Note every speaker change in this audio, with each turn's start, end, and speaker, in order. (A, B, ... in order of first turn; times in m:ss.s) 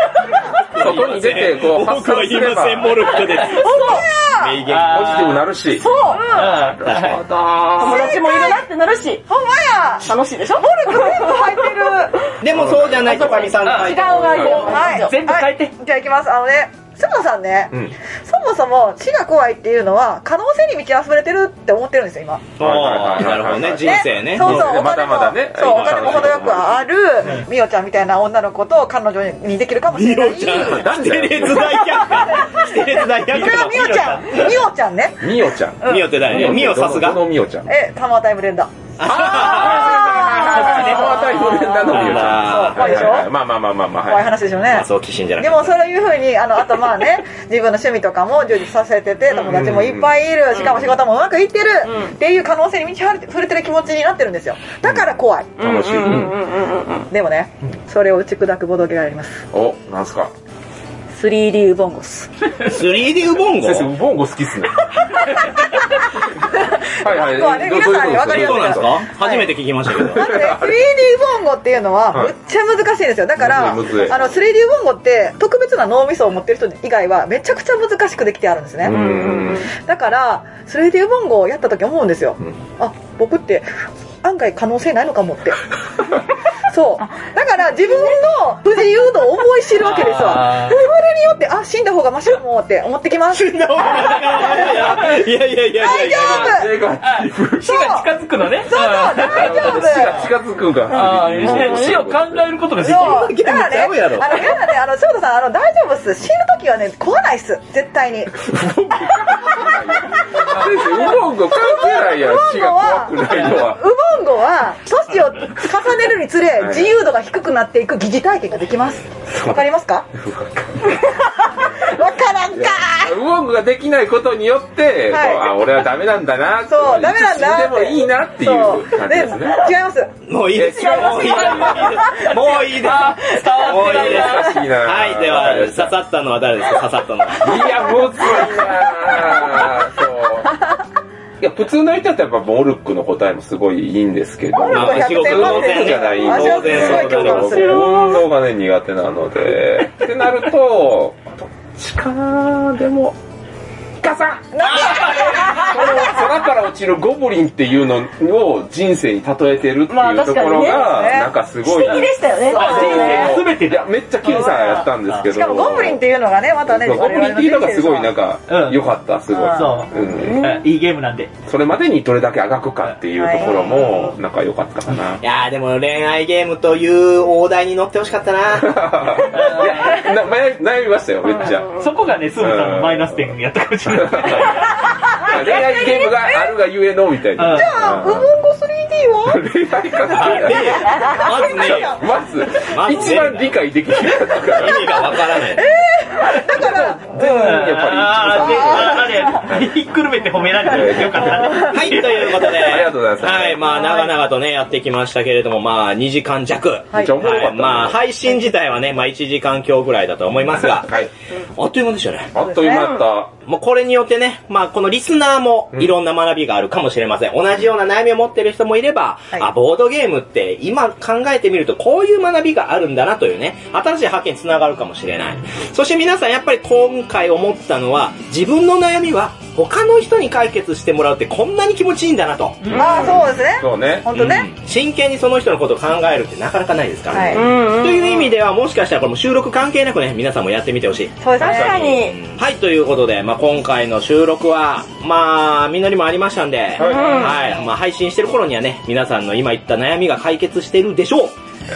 0:00.6-0:05.2 A
0:00.8-0:03.3 B
0:03.4-0:04.6 C
0:03.6-0:04.0 D
0:04.7-0:05.5 E
0:04.8-0:05.9 B
0:05.7-0:06.4 D
0:06.1-0:06.6 C
0:06.3-0:07.2 E
0:06.4-0:08.2 B
0:06.8-0:07.2 A
0:07.8-0:09.2 D
0:07.8-0:08.6 C
0:09.3-0:12.2 C
0:10.0-0:11.9 D
0:12.4-0:14.8 A
0:12.5-0:13.2 B
0:13.1-0:15.2 D
0:13.1-0:15.7 E
0:14.6-0:22.4 C
0:22.6-0:24.8 A
0:22.6-0:27.4 B
0:23.7-0:30.8 C
0:29.9-0:34.5 A
0:30.6-0:32.3 B
0:31.8-0:36.0 C
0:33.3-0:34.6 E
0:35.2-0:37.7 B
0:35.8-0:37.2 A
0:37.7-0:38.7 C
0:39.0-0:40.3 A
0:39.0-0:44.3 B
0:39.5-0:43.4 C
0:40.7-0:41.4 D
0:41.8-0:43.1 A
0:44.0-0:44.9 C
0:44.7-0:45.8 A
0:45.4-0:55.6 C
0:49.4-0:50.9 B
0:51.8-0:52.2 D
0:54.8-0:56.4 B
0:55.6-0:57.1 D
0:57.1-0:59.4 C
0:59.5-1:00.3 B
1:01.1-1:02.3 C
1:02.6-1:03.9 A
1:03.6-1:04.9 B
1:05.4-1:09.5 C
1:07.0-1:09.0 B
1:08.3-1:10.3 A
1:09.9-1:10.8 B
1:10.0-1:25.7 C
1:13.4-1:14.3 B
1:18.8-1:19.7 B
1:18.9-1:19.7 D
1:26.7-1:34.8 C
1:29.8-1:30.8 E
1:33.3-1:36.7 A
1:35.8-1:36.8 C
1:36.3-1:37.9 B
1:37.0-1:40.2 E
1:37.6-1:38.1 C
1:38.7-1:40.2 C
1:39.2-1:42.6 B
1:40.9-1:43.3 E
1:42.8-1:48.4 C
1:42.8-1:44.6 A
1:48.3-1:53.8 B
1:49.5-2:00.1 C
1:56.6-1:56.9 B
1:59.3-1:59.6 B
2:00.2-2:01.0 B
2:01.0-2:03.2 C
2:02.5-2:09.7 B
2:05.1-2:05.5 C
2:06.7-2:10.2 C
2:10.3-2:17.8 A
2:10.5-2:12.0 B
2:10.8-2:14.7 E
2:11.2-2:11.8 C
2:12.8-2:13.7 C
2:13.7-2:16.0 B
2:17.4-2:20.6 B
2:17.9-2:19.7 C
2:21.4-2:33.2 B
2:24.5-2:28.2 C
2:24.7-2:27.7 A
2:34.0-2:46.0 B
2:34.5-2:36.2 C
2:34.7-2:35.6 E
2:39.9-2:40.8 D
2:40.6-2:41.3 C
2:41.7-2:43.0 D
2:42.5-2:45.1 E
2:42.5-2:43.4 C
2:44.3-2:48.1 C
2:46.7-2:50.5 B
2:48.5-2:48.8 E
2:49.3-2:49.8 C
2:49.4-2:51.3 E
2:50.2-2:50.6 D
2:51.5-2:55.2 B
2:53.2-2:53.8 C
2:55.2-2:59.1 A
2:58.6-3:01.7 B
2:59.3-3:00.0 E
3:01.3-3:01.9 D
3:01.8-3:04.8 E
3:02.4-3:03.4 B
3:03.9-3:08.3 B
3:05.2-3:06.5 C
3:07.4-3:08.0 E
3:07.4-3:09.4 C
3:09.2-3:15.1 B
3:10.1-3:12.0 A
3:10.4-3:12.2 C
3:12.7-3:13.6 A
3:14.5-3:15.7 A
3:15.5-3:17.2 C
3:16.5-3:19.7 B
3:17.2-3:22.4 E
3:18.4-3:19.0 C
3:20.6-3:21.7 B
3:21.6-3:32.3 A
3:22.4-3:23.8 B
3:23.8-3:24.0 C
3:26.9-3:27.2 C
3:26.9-3:28.0 B
3:30.6-3:31.0 B
3:32.3-3:33.3 B
3:32.4-3:32.8 C
3:32.6-3:33.0 D
3:33.4-3:53.1 A
3:52.6-3:53.0 E
3:52.7-3:54.1 B
3:52.8-3:54.5 C
3:54.1-4:11.4 A
3:57.1-3:57.5 C
3:57.3-3:58.3 D
4:01.2-4:02.0 C
4:01.4-4:02.2 D
4:06.8-4:07.3 B
4:06.8-4:07.4 D
4:06.8-4:07.4 C